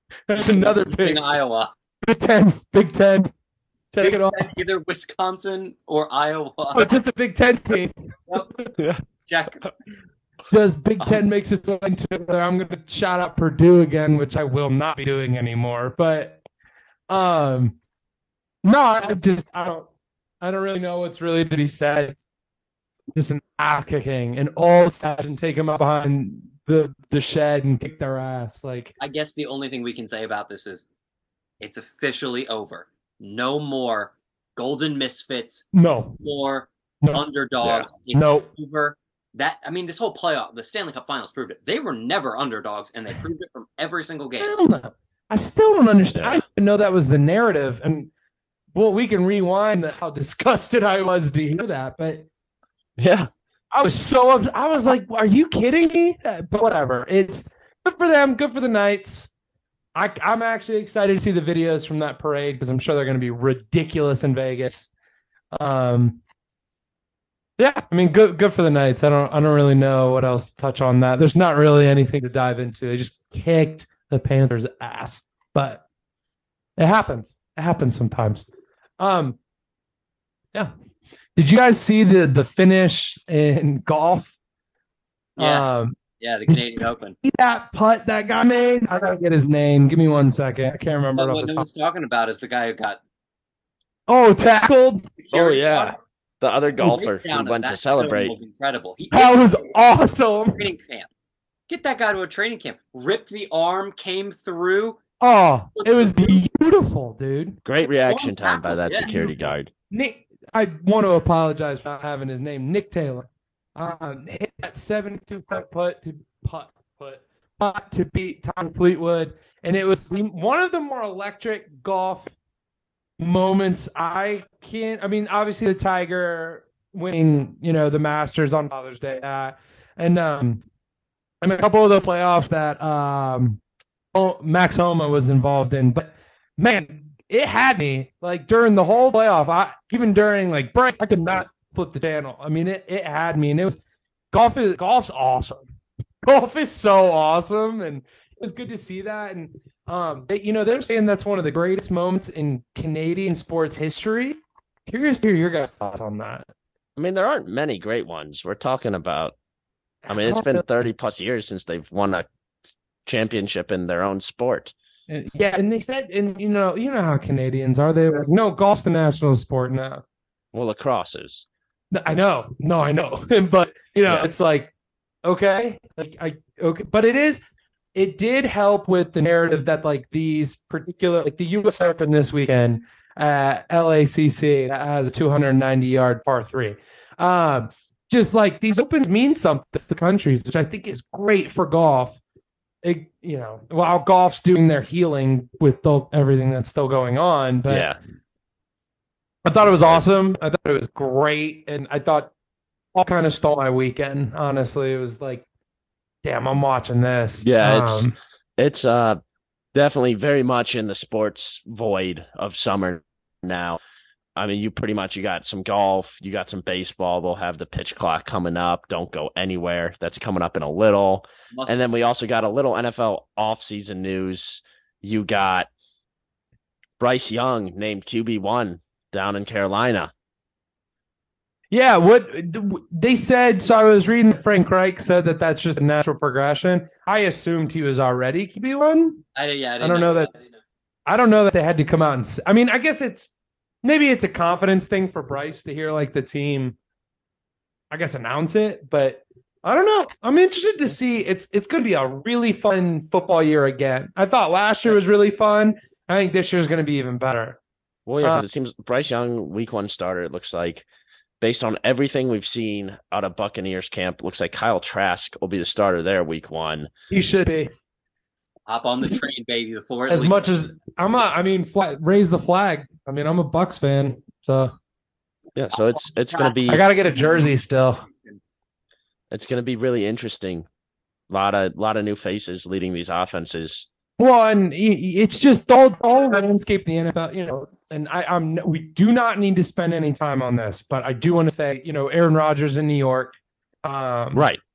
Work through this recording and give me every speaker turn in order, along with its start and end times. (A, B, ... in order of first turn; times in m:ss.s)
0:00.3-0:01.3 A
0:00.4-0:01.7 B
0:02.0-0:03.3 A
0:03.9-0:04.5 A
0:04.0-0:06.9 B
0:06.7-0:08.7 A
0:08.8-0:09.0 C
0:09.3-0:09.7 B
0:10.5-0:16.4 A
0:17.1-0:17.8 A
0:18.6-0:19.9 A
0:20.4-0:22.2 A
0:23.2-0:28.9 A
0:29.0-0:30.9 B
0:31.6-0:35.7 B
0:35.7-0:36.2 A
0:36.2-0:44.5 B
0:38.1-0:38.5 A
0:44.4-0:48.1 A
0:46.1-0:46.4 C
0:48.7-0:52.3 A
0:53.0-0:53.3 C
0:53.7-0:59.3 A
1:00.0-1:04.9 A
1:05.5-1:06.2 A
1:07.6-1:15.8 A
1:16.8-1:18.4 A
1:19.0-1:19.4 A
1:21.4-1:24.4 A
1:25.4-1:26.0 A
1:25.4-1:25.7 B
1:26.2-1:27.2 B
1:26.5-1:31.7 A
1:31.2-1:33.0 B
1:34.1-1:35.9 A
1:35.2-1:36.0 B
1:36.4-1:38.4 C
1:36.8-1:39.6 B
1:39.1-1:40.7 A
1:40.5-1:41.1 B
1:41.7-1:45.0 B
1:45.2-1:47.6 A
1:45.8-1:46.4 B
1:47.6-1:49.7 C
1:48.0-1:49.1 B
1:49.0-1:49.4 A
1:49.9-2:02.3 A
2:03.2-2:10.6 A
2:11.4-2:13.6 A
2:14.1-2:23.8 A
2:24.3-2:25.6 A
2:26.2-2:36.5 A
2:37.0-2:39.4 C
2:40.1-2:40.7 A
2:40.1-2:42.3 C
2:43.1-2:44.7 C
2:45.1-2:50.0 A
2:50.5-2:51.4 C
2:51.9-2:54.7 A
2:55.2-2:57.4 A
2:58.0-3:12.2 A
3:12.8-3:17.9 A
3:17.7-3:18.0 C
3:19.4-3:22.3 A
3:19.6-3:20.0 C
3:23.0-3:25.4 A
3:26.2-3:28.2 A
3:27.4-3:29.2 C
3:29.7-3:33.8 C
3:34.4-3:45.7 C
3:41.5-3:41.8 B
3:47.0-3:50.1 C
3:51.7-3:59.2 A
3:59.4-4:00.3 B
3:59.8-4:00.3 A
4:01.1-4:06.8 A
4:07.9-4:17.6 A
4:18.1-4:20.9 C
4:21.4-4:26.9 C
4:27.1-4:27.7 A
4:28.7-4:30.5 B
4:30.1-4:34.7 A
4:35.6-4:36.8 C
4:36.7-4:38.0 A
4:39.3-4:40.7 C
4:41.3-4:43.9 C
4:44.2-4:54.5 A
4:54.3-4:54.6 C